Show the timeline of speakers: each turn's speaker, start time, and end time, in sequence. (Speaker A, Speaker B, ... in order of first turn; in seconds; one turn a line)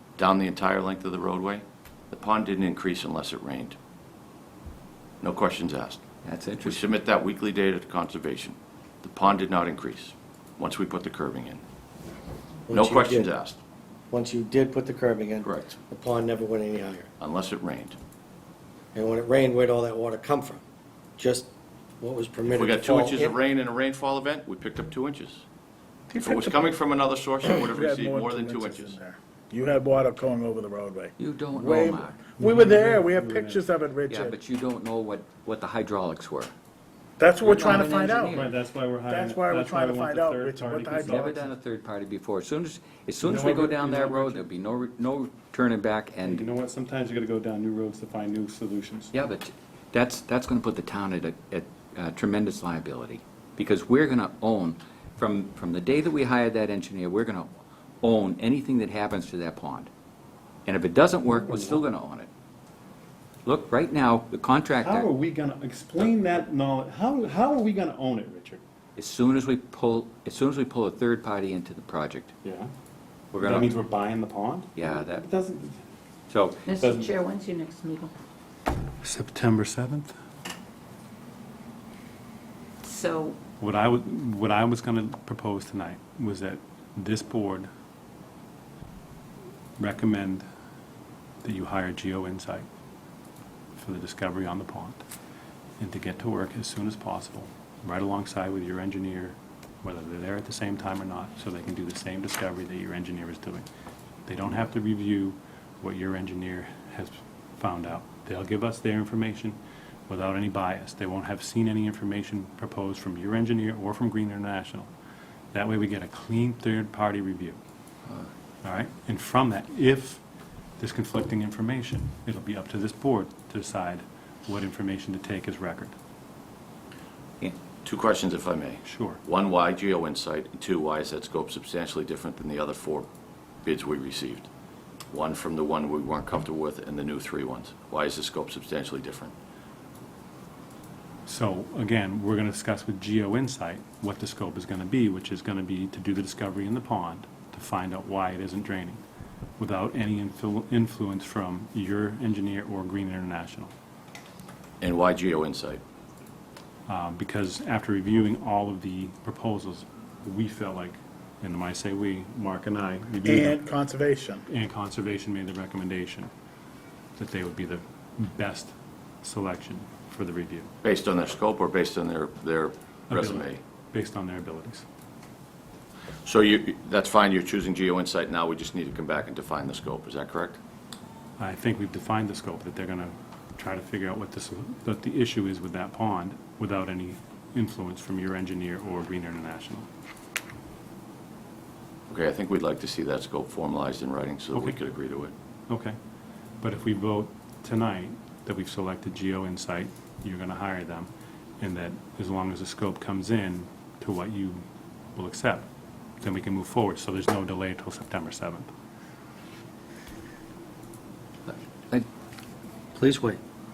Speaker A: 0.2-3.8
Speaker A: 5.2-6.0
Speaker B: 6.2-6.8
Speaker A: 6.6-11.6
Speaker C: 12.7-13.3
Speaker A: 12.7-13.6
Speaker C: 14.1-17.1
Speaker A: 15.4-15.7
Speaker A: 17.2-17.9
Speaker C: 18.9-20.6
Speaker C: 21.2-21.5
Speaker C: 22.0-23.4
Speaker A: 22.5-25.4
Speaker D: 26.1-26.6
Speaker A: 26.2-29.0
Speaker D: 27.5-34.4
Speaker B: 31.2-32.2
Speaker E: 32.4-33.7
Speaker B: 34.1-36.5
Speaker D: 37.2-38.4
Speaker B: 37.4-38.6
Speaker E: 37.4-41.4
Speaker D: 39.0-41.5
Speaker B: 41.0-46.5
Speaker E: 43.2-44.4
Speaker E: 46.2-49.1
Speaker B: 49.1-57.5
Speaker B: 58.0-59.9
Speaker B: 60.6-62.3
Speaker E: 61.2-61.9
Speaker B: 63.4-65.1
Speaker E: 64.8-68.6
Speaker B: 69.0-72.3
Speaker E: 72.4-72.7
Speaker B: 73.3-73.7
Speaker E: 73.4-75.8
Speaker B: 74.7-75.2
Speaker B: 76.3-76.7
Speaker F: 76.7-78.1
Speaker E: 76.8-77.1
Speaker E: 79.0-80.2
Speaker F: 82.8-83.4
Speaker E: 83.6-87.7
Speaker E: 89.8-90.4
Speaker E: 91.4-92.7
Speaker E: 93.7-95.0
Speaker E: 95.8-103.7
Speaker E: 104.2-109.6
Speaker E: 110.1-114.9
Speaker E: 115.5-117.6
Speaker E: 118.6-120.2
Speaker E: 120.8-126.0
Speaker A: 127.8-133.1
Speaker E: 128.8-129.2
Speaker A: 133.6-134.5
Speaker A: 135.1-139.3
Speaker E: 141.2-149.0
Speaker E: 149.6-153.7
Speaker A: 154.8-155.8
Speaker E: 156.9-163.6
Speaker D: 163.2-164.4
Speaker E: 164.5-166.3
Speaker E: 167.2-170.7
Speaker A: 170.8-173.6
Speaker E: 173.1-174.8
Speaker A: 176.2-180.6
Speaker E: 181.4-189.9
Speaker A: 192.1-195.3
Speaker E: 195.7-195.9
Speaker E: 196.6-201.1
Speaker E: 201.6-204.6
Speaker E: 205.1-205.7
Speaker E: 206.2-208.7
Speaker B: 211.5-212.1
Speaker C: 212.9-213.4